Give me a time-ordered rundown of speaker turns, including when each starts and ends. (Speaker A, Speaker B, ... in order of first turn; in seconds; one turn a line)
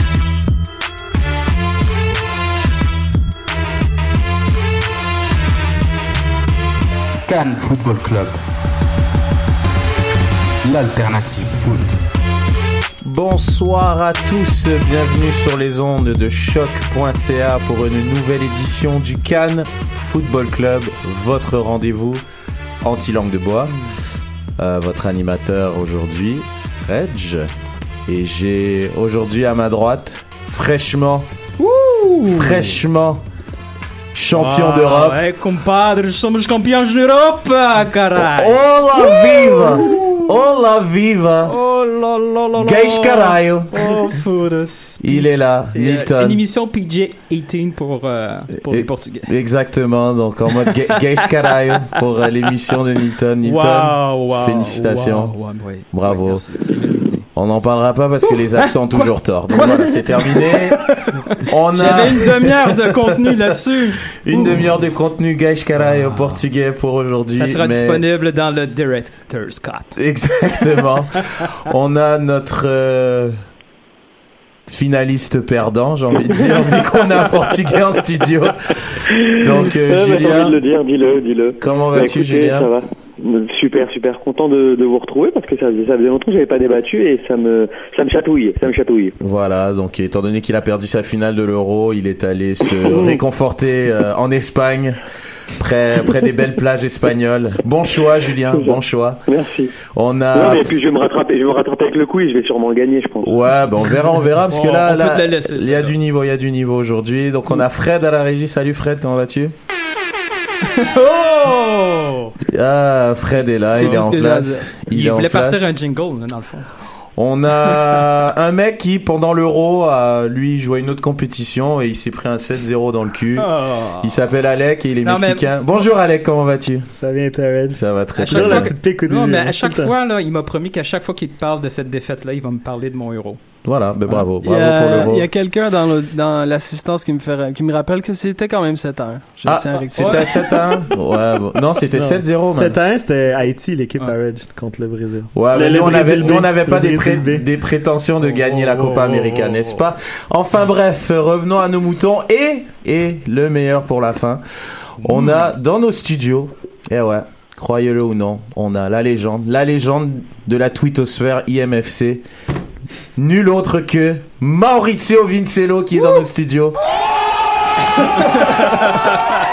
Speaker A: 7.3-8.4
Speaker A: 10.6-12.0
Speaker B: 13.0-22.2
Speaker B: 22.8-23.8
Speaker B: 24.6-27.5
Speaker B: 28.1-31.3
Speaker C: 31.6-32.8
Speaker B: 32.3-33.2
Speaker B: 34.1-35.2
Speaker C: 34.3-40.3
Speaker B: 38.2-41.5
Speaker C: 41.4-49.3
Speaker B: 42.6-43.8
Speaker B: 45.0-46.4
Speaker B: 48.7-55.4
Speaker C: 53.4-57.3
Speaker B: 55.9-56.5
Speaker B: 57.3-60.9
Speaker C: 58.3-64.7
Speaker B: 61.5-63.4
Speaker B: 64.2-68.0
Speaker C: 65.8-66.4
Speaker C: 67.3-70.0
Speaker B: 70.0-73.3
Speaker B: 74.7-80.6
Speaker D: 79.2-89.2
Speaker B: 81.6-82.7
Speaker B: 89.2-95.0
Speaker D: 92.7-93.2
Speaker B: 95.6-99.2
Speaker D: 98.5-99.7
Speaker B: 100.0-100.8
Speaker D: 100.3-103.3
Speaker B: 103.2-109.5
Speaker C: 104.5-106.0
Speaker C: 110.6-112.4
Speaker B: 112.5-115.7
Speaker E: 113.7-114.7
Speaker C: 113.8-114.1
Speaker C: 114.9-116.7
Speaker B: 117.2-126.9
Speaker C: 123.3-124.2
Speaker C: 125.0-125.5
Speaker F: 127.0-129.9
Speaker B: 127.7-128.8
Speaker C: 128.2-133.4
Speaker B: 133.6-135.3
Speaker E: 134.4-140.5
Speaker B: 139.5-142.8
Speaker C: 139.9-140.6
Speaker F: 141.9-147.5
Speaker B: 145.3-154.4
Speaker F: 148.6-149.4
Speaker B: 155.0-162.2
Speaker B: 163.2-166.8
Speaker C: 168.5-169.3